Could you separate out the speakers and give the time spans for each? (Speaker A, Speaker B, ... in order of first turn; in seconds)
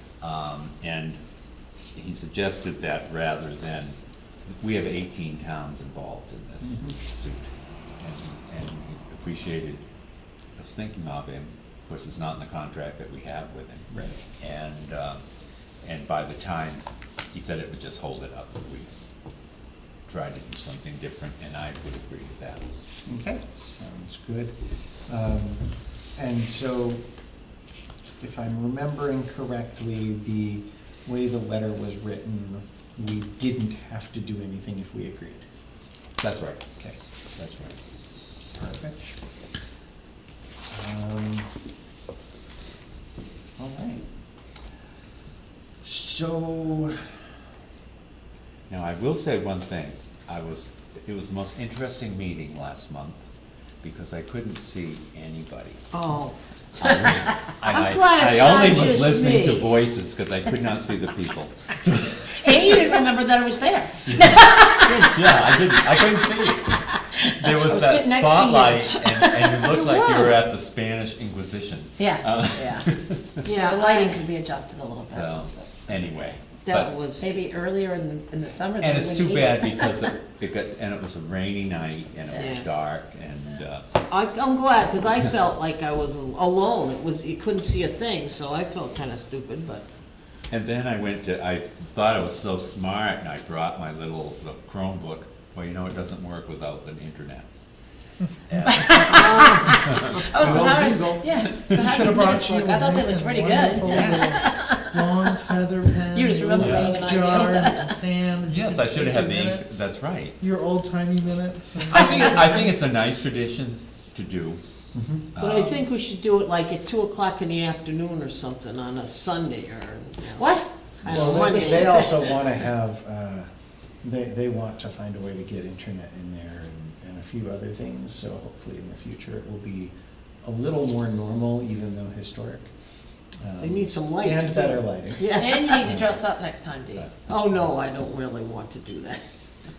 Speaker A: 0.2-1.2, 1.9-4.0, 4.5-9.9, 10.6-15.2, 15.8-18.9, 20.1-22.6, 36.2-36.6, 37.4-37.8, 48.7-53.2, 53.8-55.8, 56.8-62.9, 64.1-66.8, 67.3-73.4, 75.1-76.9, 78.8-83.9, 90.5-97.5, 98.5-100.6, 106.6-107.0, 108.5-110.4, 111.9-114.6, 115.3-115.9
Speaker B: 6.6-7.0, 13.9-14.2, 23.1-24.6, 25.1-27.0, 28.2-35.5, 38.5-39.0, 40.7-41.5, 43.6-44.0, 45.8-47.0, 100.3-101.2, 103.9-104.2, 114.9-115.3, 121.0-123.5, 124.0-129.9, 130.4-132.7, 133.4-136.2
Speaker C: 55.9-56.4, 57.6-59.7, 69.7-70.4, 73.4-74.2, 76.6-77.3, 82.3-82.7, 84.1-89.8, 98.9-101.1, 115.4-122.3, 133.6-136.0, 137.3-139.5
Speaker D: 62.4-65.8, 66.9-69.6, 72.0-72.9, 73.5-76.4, 77.2-80.0, 98.7-105.3, 106.1-108.0, 120.4-122.1, 135.3-137.1
Speaker E: 101.7-112.7